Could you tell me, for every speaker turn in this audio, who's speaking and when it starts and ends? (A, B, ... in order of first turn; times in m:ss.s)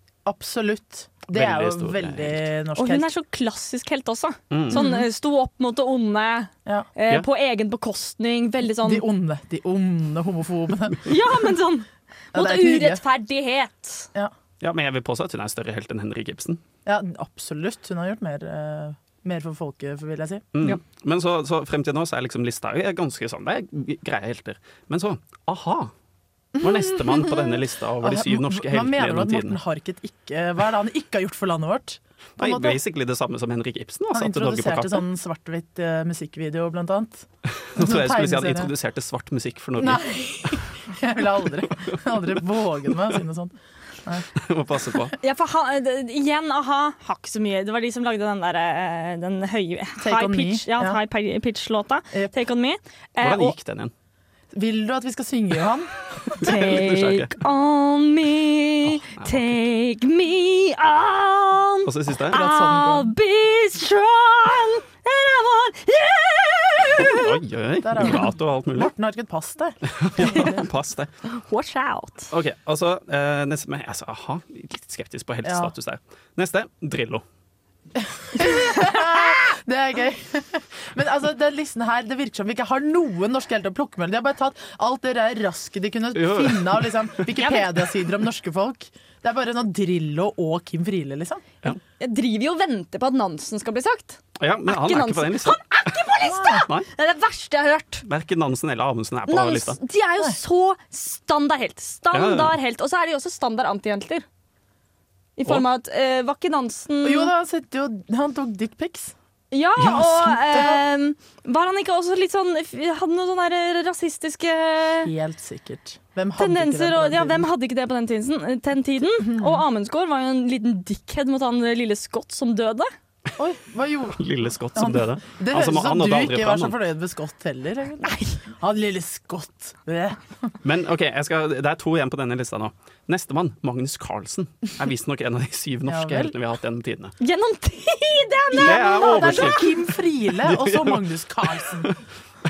0:00.2-0:03.1 A
0:01.3-0:02.4 B
0:02.8-0:09.0 C
0:04.5-0:04.8 B
0:04.7-0:05.0 A
0:08.7-0:11.0 A
0:11.0-0:14.1 C
0:12.3-0:13.0 A
0:14.6-0:16.6 B
0:16.8-0:20.4 A
0:20.5-0:25.9 B
0:26.6-0:32.8 A
0:26.6-0:29.6 B
0:32.4-0:35.0 B
0:34.1-0:38.7 A
0:37.6-0:40.6 B
0:39.8-0:44.2 A
0:44.4-0:45.2 B
0:45.2-0:53.5 C
0:50.0-0:51.0 A
0:53.2-0:53.9 B
0:54.5-0:56.2 A
0:56.3-0:57.3 B
0:56.4-1:07.3 C
0:58.9-0:59.6 B
1:01.8-1:02.4 B
1:02.3-1:03.1 A
1:07.0-1:08.9 B
1:07.8-1:10.6 A
1:09.9-1:11.1 B
1:11.3-1:12.3 C
1:12.3-1:17.2 B
1:15.4-1:15.7 A
1:18.0-1:31.4 A
1:18.6-1:19.2 C
1:26.1-1:27.1 B
1:32.0-1:38.0 C
1:34.4-1:35.6 B
1:36.2-1:36.6 A
1:38.0-1:39.8 B
1:39.3-1:44.2 C
1:42.1-1:42.5 B
1:45.4-1:47.3 C
1:47.0-1:49.1 A
1:49.5-1:55.1 C
1:49.8-1:50.4 B
1:50.5-1:50.8 A
1:55.0-1:57.5 A
1:56.4-2:02.9 C
1:59.2-1:59.6 A
2:03.4-2:04.2 A
2:04.2-2:06.8 B
2:04.7-2:10.5 A
2:08.0-2:08.4 C
2:10.6-2:17.1 B
2:15.8-2:16.3 A
2:17.2-2:19.6 C
2:18.5-2:21.9 A
2:18.6-2:19.7 B
2:20.3-2:22.0 B